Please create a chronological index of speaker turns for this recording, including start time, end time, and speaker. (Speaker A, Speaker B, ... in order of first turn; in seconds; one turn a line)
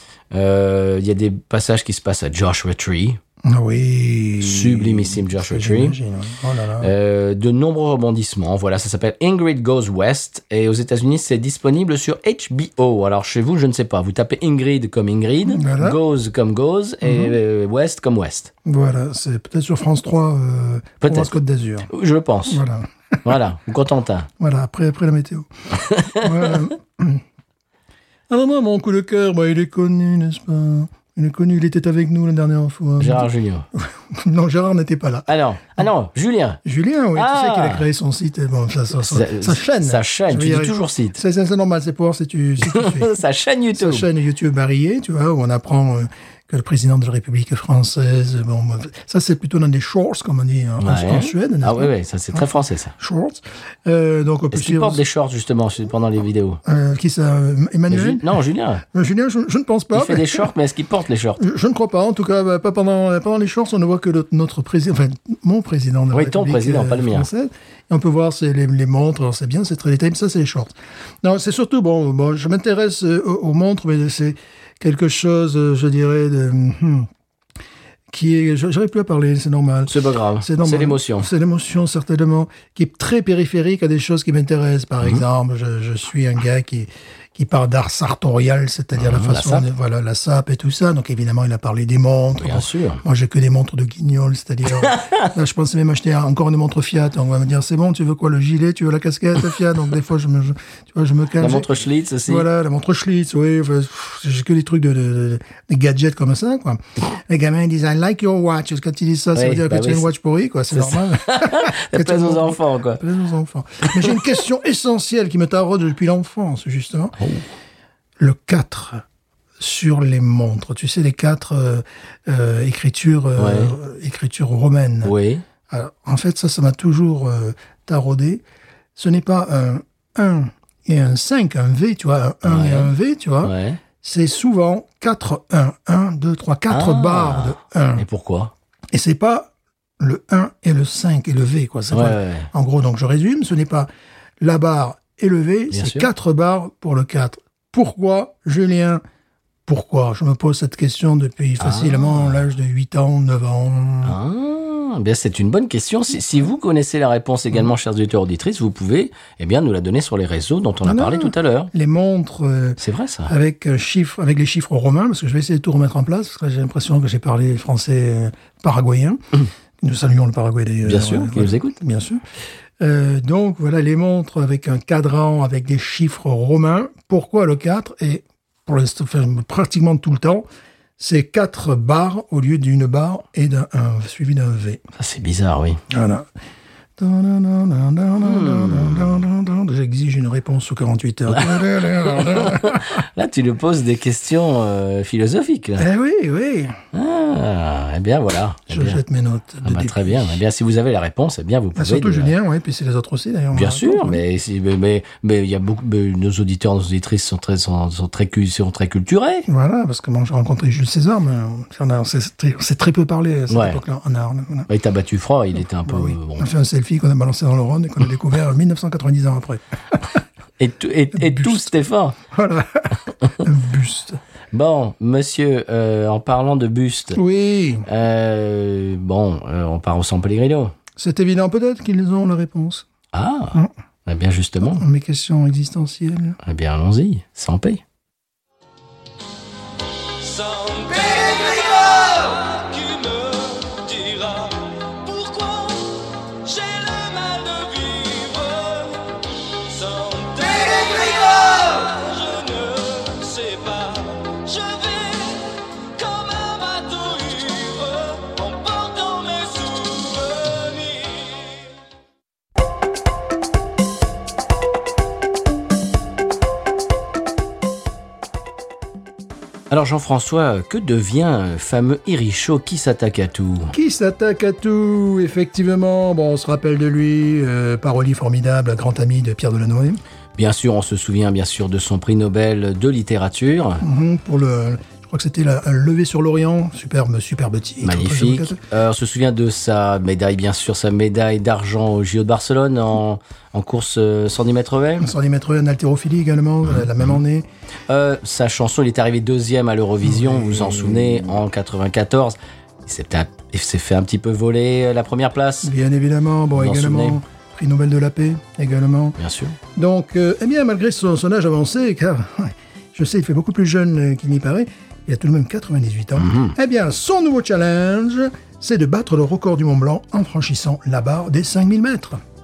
Speaker A: 0.3-3.2
Speaker B: 3.5-6.9
Speaker A: 4.4-6.0
Speaker A: 6.8-18.5
Speaker B: 15.5-16.0
Speaker B: 17.0-17.4
Speaker B: 18.6-21.9
Speaker A: 21.0-21.3
Speaker A: 21.9-22.6
Speaker B: 22.5-23.3
Speaker A: 23.2-24.3
Speaker B: 24.4-25.5
Speaker A: 25.7-26.4
Speaker B: 26.2-27.2
Speaker B: 28.3-35.3
Speaker A: 33.0-33.7
Speaker A: 35.3-36.6
Speaker B: 36.6-43.1
Speaker A: 37.1-37.9
Speaker A: 39.0-41.2
Speaker A: 42.6-44.1
Speaker B: 43.8-52.5
Speaker A: 50.8-53.0
Speaker B: 53.0-55.0
Speaker A: 54.5-56.6
Speaker B: 56.6-58.3
Speaker A: 57.9-58.9
Speaker B: 58.9-60.5
Speaker A: 59.9-61.4
Speaker B: 61.4-77.1
Speaker A: 66.1-67.3
Speaker B: 78.1-101.7
Speaker A: 79.9-81.3
Speaker A: 89.0-89.7
Speaker A: 92.4-93.0
Speaker A: 94.8-95.3
Speaker A: 101.4-102.5
Speaker B: 102.3-117.2
Speaker A: 109.3-110.1
Speaker A: 110.7-113.0
Speaker A: 117.2-117.5
Speaker B: 118.2-119.0
Speaker B: 119.6-125.1
Speaker A: 123.4-123.8
Speaker A: 125.0-125.4
Speaker B: 125.7-128.4
Speaker B: 129.0-138.1
Speaker A: 132.4-132.9
Speaker A: 133.4-133.8
Speaker A: 136.7-138.5
Speaker B: 138.9-143.9
Speaker A: 141.9-142.5
Speaker B: 144.4-149.0
Speaker A: 145.7-146.1
Speaker B: 149.7-154.2
Speaker A: 151.6-152.4
Speaker A: 154.0-161.7
Speaker B: 160.8-169.2
Speaker A: 162.8-163.3
Speaker B: 169.8-172.2
Speaker A: 170.8-171.8
Speaker B: 172.8-180.4
Speaker B: 181.0-184.8
Speaker A: 185.0-185.8
Speaker B: 185.9-186.3
Speaker B: 187.0-193.0
Speaker A: 188.2-189.2
Speaker A: 191.3-195.8
Speaker B: 195.8-196.8
Speaker A: 196.9-199.0
Speaker B: 198.7-200.2
Speaker A: 199.6-202.3
Speaker B: 201.8-204.2
Speaker A: 203.5-209.5
Speaker B: 209.5-214.7
Speaker A: 213.5-213.8
Speaker A: 214.7-216.5
Speaker B: 215.9-220.2
Speaker A: 220.6-222.2
Speaker B: 221.2-224.2
Speaker A: 224.5-227.2
Speaker B: 227.2-227.9
Speaker A: 227.9-230.7
Speaker B: 231.0-232.9
Speaker A: 233.1-234.8
Speaker B: 234.7-236.4
Speaker A: 236.4-237.8
Speaker C: 240.2-249.1
Speaker C: 249.7-261.5
Speaker A: 269.7-273.7
Speaker B: 273.7-280.0
Speaker A: 280.4-283.8
Speaker B: 283.8-288.6
Speaker A: 287.8-295.1
Speaker B: 295.0-297.5
Speaker A: 296.7-297.2
Speaker A: 297.9-305.7
Speaker B: 300.0-301.4
Speaker B: 305.6-309.2
Speaker A: 306.6-307.2
Speaker A: 309.2-309.6
Speaker B: 309.8-322.2
Speaker A: 316.2-316.6